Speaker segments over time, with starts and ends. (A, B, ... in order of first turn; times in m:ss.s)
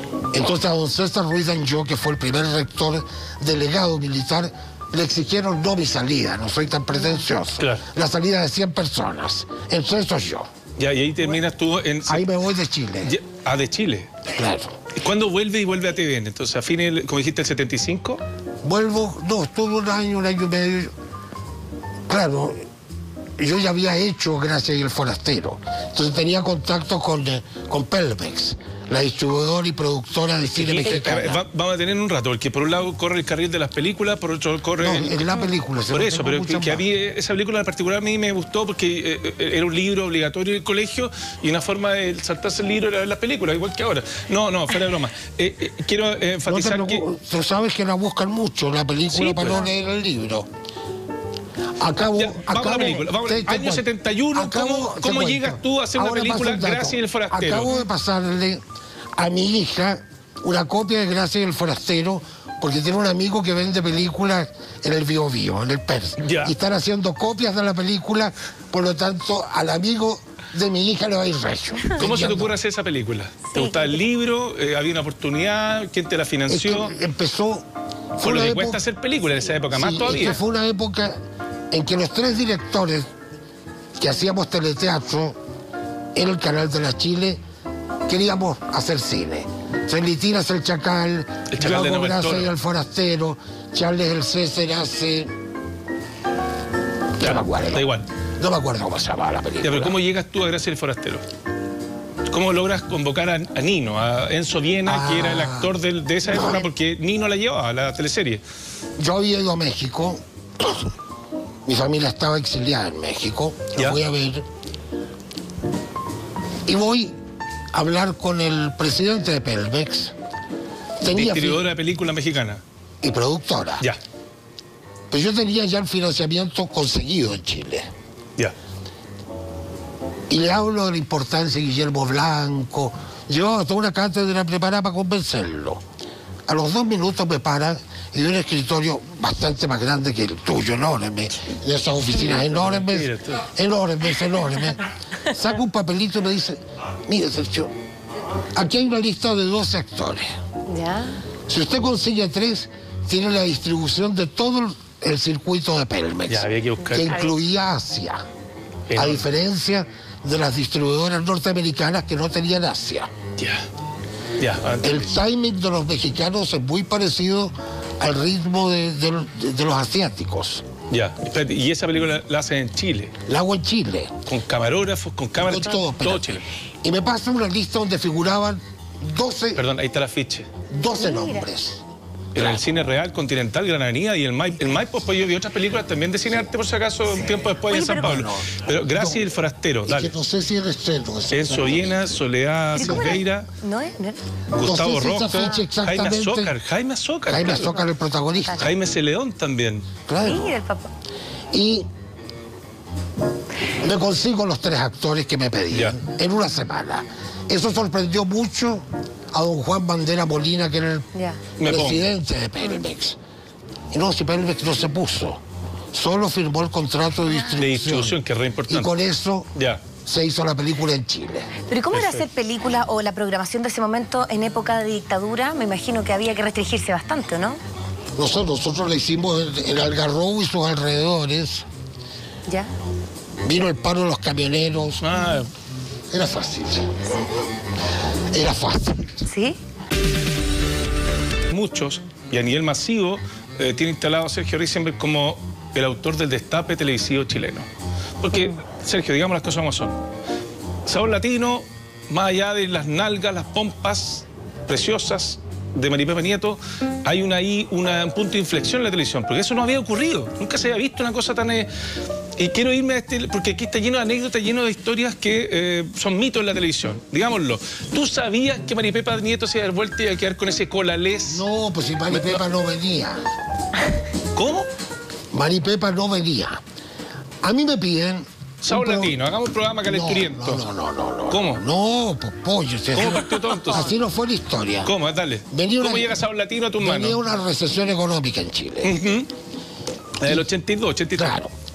0:00.3-0:10.5 A
0:07.6-0:07.8 B
0:10.8-0:12.2 B
0:12.1-0:13.1 A
0:13.0-0:14.1 B
0:14.3-0:14.8 A
0:14.9-0:18.2 B
0:18.6-0:20.9 A
0:22.1-0:22.6 A
0:23.4-0:31.4 A
0:30.4-0:35.3 B
0:30.8-0:31.2 C
0:34.8-0:36.8 A
0:35.9-0:47.0 B
0:46.4-0:50.5 A
0:49.1-0:49.7 B
0:51.8-0:58.6 A
0:52.1-0:57.8 B
0:59.2-1:12.5 A
1:06.2-1:06.5 B
1:12.0-1:16.9 B
1:13.5-1:13.8 C
1:16.5-1:18.8 A
1:18.2-1:20.4 B
1:19.7-1:21.1 A
1:21.7-1:23.1 A
1:24.0-1:25.4 A
1:26.1-1:27.4 A
1:28.1-1:35.3 A
1:31.5-1:32.5 B
1:37.2-1:38.1 B
1:37.2-1:40.0 A
1:39.6-1:41.2 B
1:42.3-1:48.4 B
1:44.8-1:45.8 A
1:46.3-1:46.6 A
1:49.0-1:50.8 A
1:51.6-1:54.4 A
1:53.7-1:54.0 B
1:56.6-1:57.2 A
1:57.7-2:00.1 A
2:01.0-2:01.6 A
2:01.0-2:02.6 B
2:03.0-2:03.9 A
2:05.1-2:07.9 A
2:10.3-2:15.8 A
2:16.5-2:27.7 A
2:22.2-2:23.5 B
2:28.5-2:30.3 A
2:30.7-2:31.2 C
2:31.5-2:38.2 A
2:36.3-2:37.3 B
2:37.1-2:37.3 C
2:38.9-2:39.2 B
2:38.9-2:43.1 A
2:43.4-2:43.6 B
2:44.4-2:45.1 B
2:44.8-2:50.6 A
2:50.9-2:53.1 B
2:53.2-2:54.2 A
2:54.2-2:56.4 B
2:55.4-2:59.6 A
2:59.6-3:00.5 B
3:00.7-3:01.8 A
3:01.0-3:01.4 C
3:02.3-3:10.1 B
3:02.4-3:02.6 A
3:07.2-3:09.3 A
3:09.8-3:12.1 A
3:11.3-3:13.5 B
3:12.8-3:14.2 C
3:12.8-3:13.2 A
3:14.5-3:17.8 B
3:14.6-3:16.5 A
3:15.3-3:15.6 C
3:17.3-3:18.7 A
3:18.6-3:19.9 B
3:20.1-3:20.5 A
3:20.2-3:20.9 C
3:21.5-3:21.9 A
3:23.8-3:31.1 A
3:25.7-3:26.0 B
3:31.1-3:31.4 C
3:31.6-3:32.1 B
3:31.6-3:33.2 A
3:33.9-3:35.4 A
3:35.9-3:39.5 A
3:37.5-3:38.9 B
3:39.5-3:39.8 B
3:40.0-3:41.5 A
3:41.6-3:47.6 C
3:41.9-3:42.3 B
3:48.1-3:51.6 A
3:53.4-3:55.0 A
3:55.0-3:55.5 B
3:56.1-3:57.1 A
3:58.3-3:59.2 A
3:59.2-3:59.6 C
4:01.5-4:07.7 B
4:08.2-4:10.0 B
4:10.8-4:21.7 B
4:22.4-4:31.4 B
4:31.2-4:33.2 A
4:32.1-4:32.4 B
4:34.3-4:34.7 B
4:35.3-4:36.6 A
4:37.4-4:39.2 A
4:38.6-4:40.7 B
4:39.8-4:44.9 A
4:41.3-4:41.6 B
4:42.9-4:43.9 B
4:44.8-4:47.2 B
4:45.5-4:46.2 A
4:46.8-4:49.0 A
4:48.8-4:49.3 B
4:50.2-4:51.4 B
4:51.1-4:51.5 A